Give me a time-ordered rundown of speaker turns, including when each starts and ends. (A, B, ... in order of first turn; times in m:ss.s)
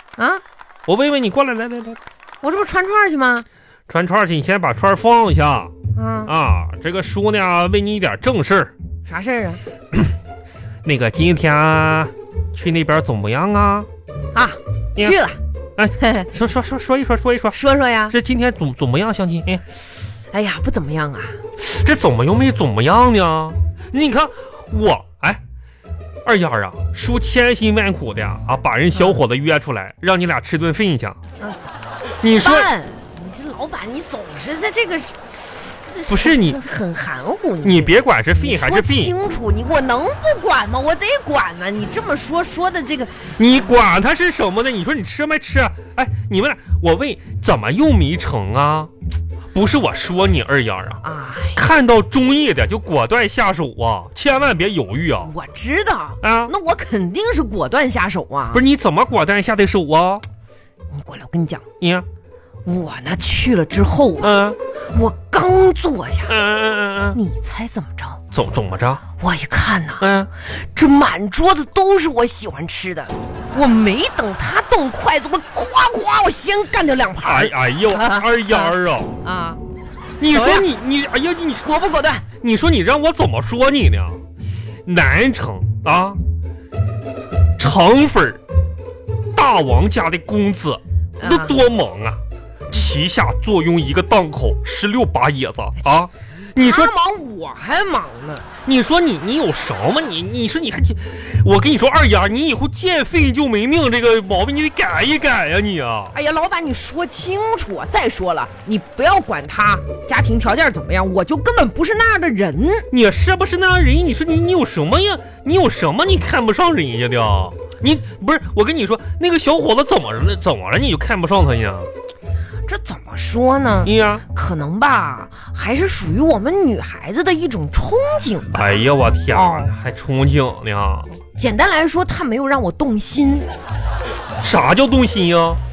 0:00.2-0:00.4 A
0:00.9-0:02.0 B
0:02.4-0:03.5 A
0:03.9-0:05.7 B
0:06.0-0:06.3 A
0:06.3-0:08.7 B
0:09.1-0:09.6 A
0:10.8-0:13.9 B
0:14.3-0:15.4 A
0:15.8-0:17.6 B
0:16.0-0:16.3 A
0:17.5-0:18.2 A
0:18.1-0:19.6 B
0:20.3-0:21.4 A
0:21.6-0:25.4 B
0:26.2-0:31.2 B
0:32.2-0:32.7 B
0:32.4-0:43.4 A
0:36.1-0:36.6 B
0:37.6-0:39.1 B
0:43.4-0:48.9 B
0:49.5-0:51.0 B
0:51.0-0:51.6 A
0:51.5-0:55.3 B
0:55.2-0:58.6 A
0:56.2-0:56.5 B
0:58.5-1:00.2 B
1:00.9-1:01.6 A
1:01.8-1:02.1 B
1:02.6-1:04.4 A
1:04.2-1:04.6 B
1:04.9-1:06.4 A
1:06.3-1:07.2 B
1:07.1-1:08.2 A
1:08.3-1:09.0 B
1:09.2-1:19.6 A
1:10.0-1:10.3 B
1:17.2-1:19.2 B
1:20.2-1:21.7 B
1:20.3-1:20.7 A
1:21.6-1:22.2 A
1:22.4-1:24.2 B
1:24.9-1:26.2 B
1:27.6-1:28.4 B
1:29.3-1:36.9 B
1:31.2-1:31.6 A
1:36.6-1:38.5 A
1:38.6-1:46.2 B
1:46.1-1:52.9 A
1:52.9-2:01.9 B
2:02.7-2:08.8 A
2:03.8-2:04.2 B
2:08.5-2:11.1 B
2:09.3-2:09.7 A
2:11.3-2:13.5 A
2:14.4-2:15.6 B